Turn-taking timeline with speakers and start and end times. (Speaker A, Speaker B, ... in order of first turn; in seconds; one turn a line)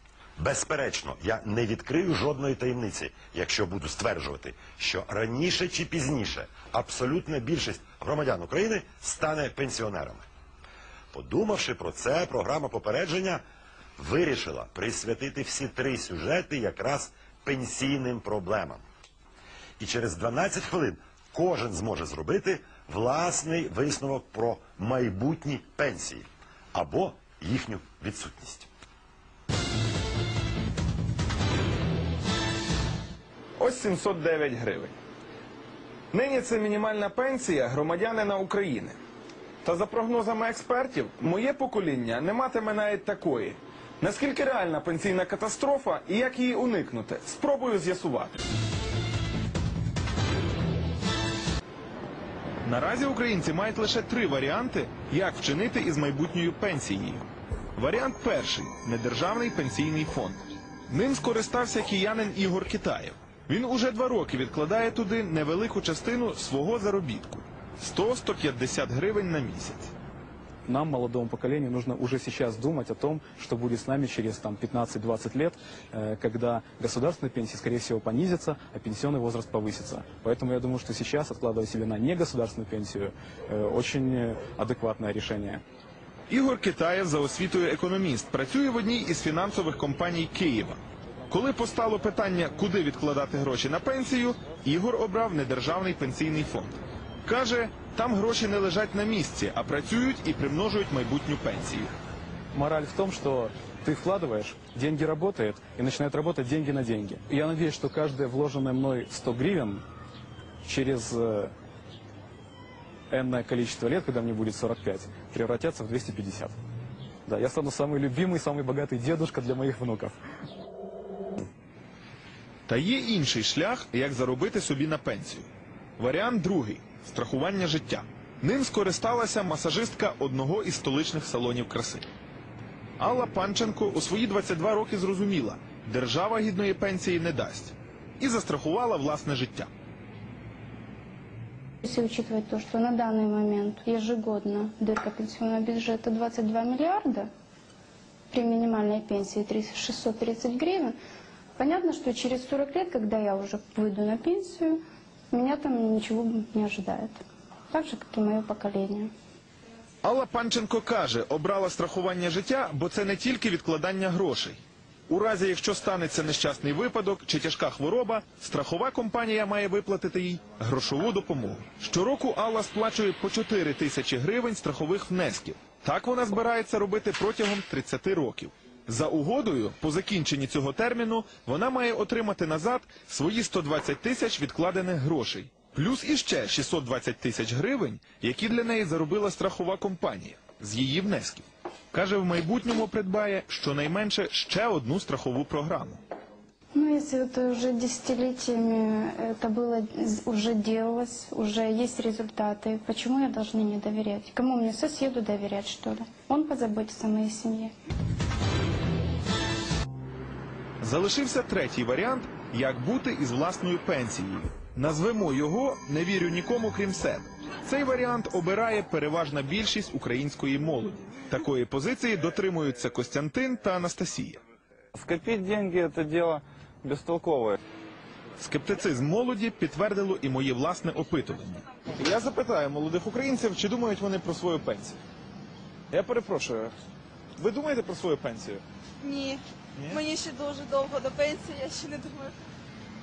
Speaker A: 0.4-10.2
Speaker A: 11.1-13.4
Speaker A: 14.0-18.8
Speaker A: 19.8-28.7
Speaker B: 33.6-34.9
Speaker B: 36.1-39.0
Speaker B: 39.6-48.4
Speaker B: 52.6-69.9
Speaker C: 70.7-85.6
Speaker B: 86.3-101.9
Speaker C: 102.5-109.8
Speaker C: 110.6-111.5
Speaker C: 113.1-116.5
Speaker C: 117.2-120.2
Speaker B: 122.7-132.1
Speaker B: 133.0-139.7
Speaker D: 141.8-147.3
Speaker D: 148.3-150.9
Speaker D: 151.6-154.8
Speaker D: 155.3-157.2
Speaker D: 157.7-159.1
Speaker B: 160.0-196.0
Speaker D: 196.7-207.7
Speaker B: 210.8-224.4
Speaker E: 224.9-227.5
Speaker B: 228.4-235.0
Speaker B: 235.9-236.7
Speaker B: 237.4-238.6
Speaker F: 239.0-242.3
Speaker B: 239.8-240.0